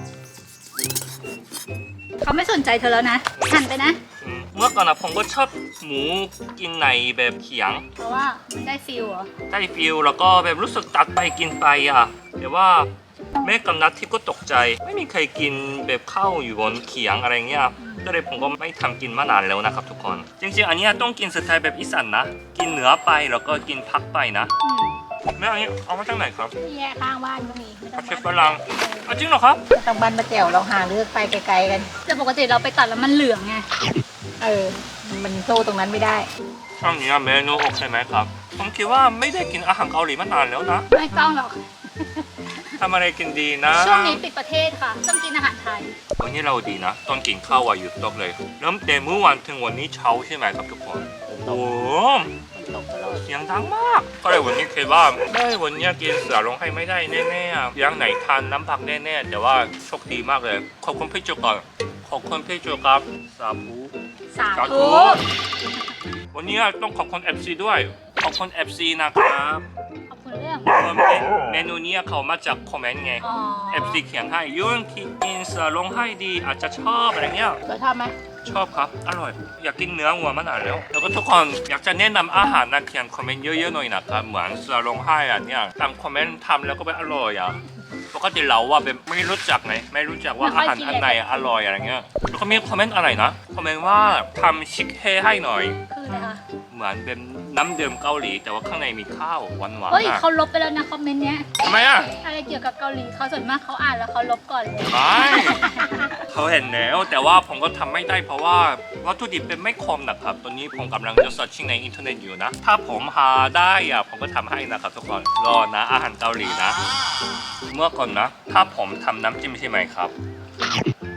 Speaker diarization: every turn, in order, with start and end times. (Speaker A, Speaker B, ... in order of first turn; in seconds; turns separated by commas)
Speaker A: 2.2-4.0, Speaker B: 3.4-3.6, Speaker B: 4.2-7.8, Speaker A: 8.0-9.3, Speaker B: 9.5-24.5, Speaker A: 17.8-18.1, Speaker A: 24.6-24.9, Speaker B: 25.4-26.5, Speaker C: 26.6-29.1, Speaker B: 28.0-29.7, Speaker C: 29.7-31.9, Speaker A: 32.0-33.7, Speaker C: 34.4-36.3, Speaker B: 36.8-40.9, Speaker A: 40.9-42.2, Speaker B: 42.8-44.2, Speaker A: 43.8-46.0, Speaker B: 46.2-52.4, Speaker C: 51.3-51.9, Speaker C: 52.5-53.3, Speaker B: 53.3-63.9, Speaker A: 64.3-65.2, Speaker B: 64.5-65.2, Speaker B: 66.3-69.7, Speaker A: 70.1-70.8, Speaker B: 70.7-77.6, Speaker A: 73.2-74.0, Speaker C: 77.7-78.2, Speaker B: 78.4-87.6, Speaker B: 88.1-95.8, Speaker A: 90.4-91.2, Speaker A: 95.9-96.4, Speaker B: 96.7-100.2, Speaker A: 99.9-101.5, Speaker B: 101.6-102.1, Speaker A: 102.1-106.2, Speaker B: 104.9-116.8, Speaker B: 117.7-120.1